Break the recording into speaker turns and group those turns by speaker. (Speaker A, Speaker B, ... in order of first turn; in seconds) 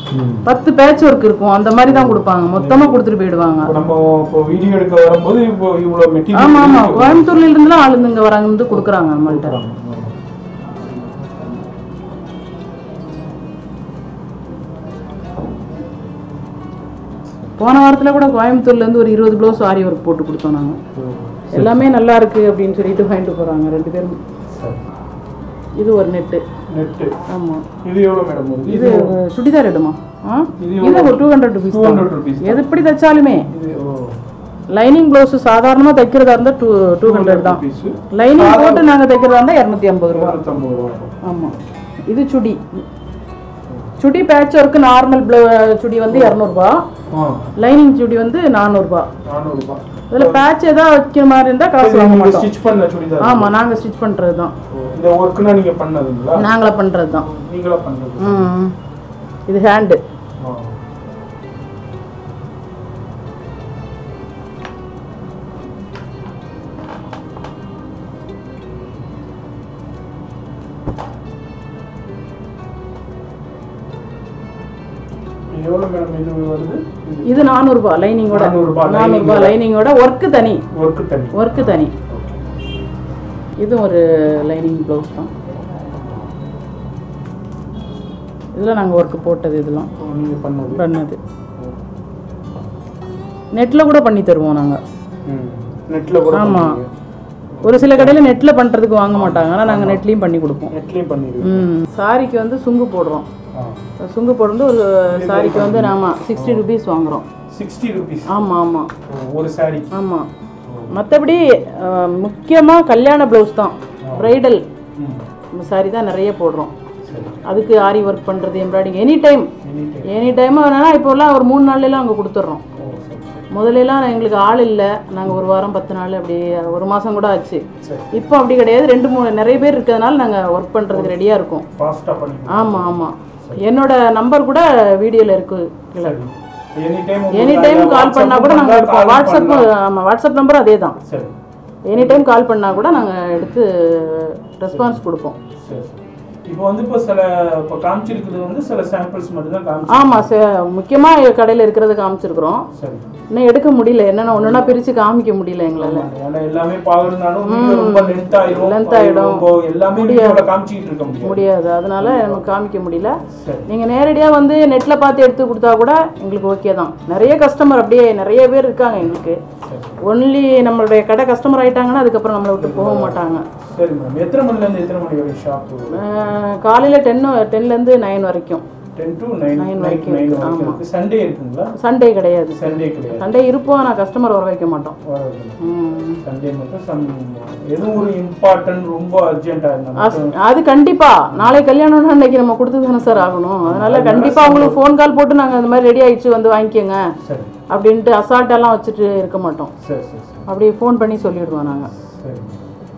Speaker A: 0.1-0.5, 1.9-3.0, 3.6-7.3, 8.7-10.1, 20.9-21.9, 24.5-24.8, 26.7-27.1, 27.8-29.1, 30.6-34.2, 37.0-38.9, 40.1-41.2, 46.1-46.4, 47.1-47.5, 49.2-50.5, 51.8-53.6, 54.7-56.5, 57.2-58.5, 60.4-60.8, 75.5-77.5, 78.3-79.6, 80.7-82.3, 85.7-86.3, 90.0-90.8, 95.2-96.9, 97.5-98.4, 99.1-100.0, 100.7-101.7, 103.5-103.9, 105.1-106.6, 107.5-108.5, 109.1-109.9, 110.7-111.0, 114.0-114.4, 115.0-115.2, 117.1-117.4, 119.6-120.3, 122.8-123.5, 127.8-128.3, 130.9-131.2, 131.7-133.6, 136.0-139.7, 141.0-141.3, 141.9-142.2, 144.7-145.0, 145.6-150.3, 152.7-153.1, 154.3-154.8, 155.8-162.4, 163.3-163.7, 169.7-170.0, 172.6-176.4, 178.9-181.7, 182.5-183.5, 185.0-185.6, 186.2-190.3, 191.3-191.6, 193.6-194.8, 197.2-197.5, 199.8-200.5, 202.0-202.6
Speaker B: 0.4-3.7, 6.3-9.6, 17.6-20.8, 21.5-24.2, 25.8-26.4, 27.3-27.6, 28.7-33.5, 34.7-40.4, 41.2-41.5, 42.1-42.8, 44.0-46.8, 47.6-49.1, 50.1-52.5, 53.2-54.5, 56.3-57.3, 58.2-58.7, 59.5-60.0, 77.2-80.6, 81.3-81.9, 83.6-85.3, 88.5-89.9, 90.7-91.2, 93.5-94.8, 96.3-96.8, 97.6-100.7, 101.4-103.2, 104.0-107.2, 108.3-108.9, 109.9-110.3, 110.9-114.6, 115.5-116.7, 117.4-119.5, 120.1-122.6, 123.5-131.7, 132.5-136.1, 137.3-141.0, 141.9-145.4, 149.9-152.7, 153.3-156.1, 157.4-160.4, 161.1-169.4, 170.0-173.4, 175.9-178.6, 179.6-180.8, 181.8-184.9, 185.6-186.2, 190.0-197.0, 197.7-199.7, 200.5-201.9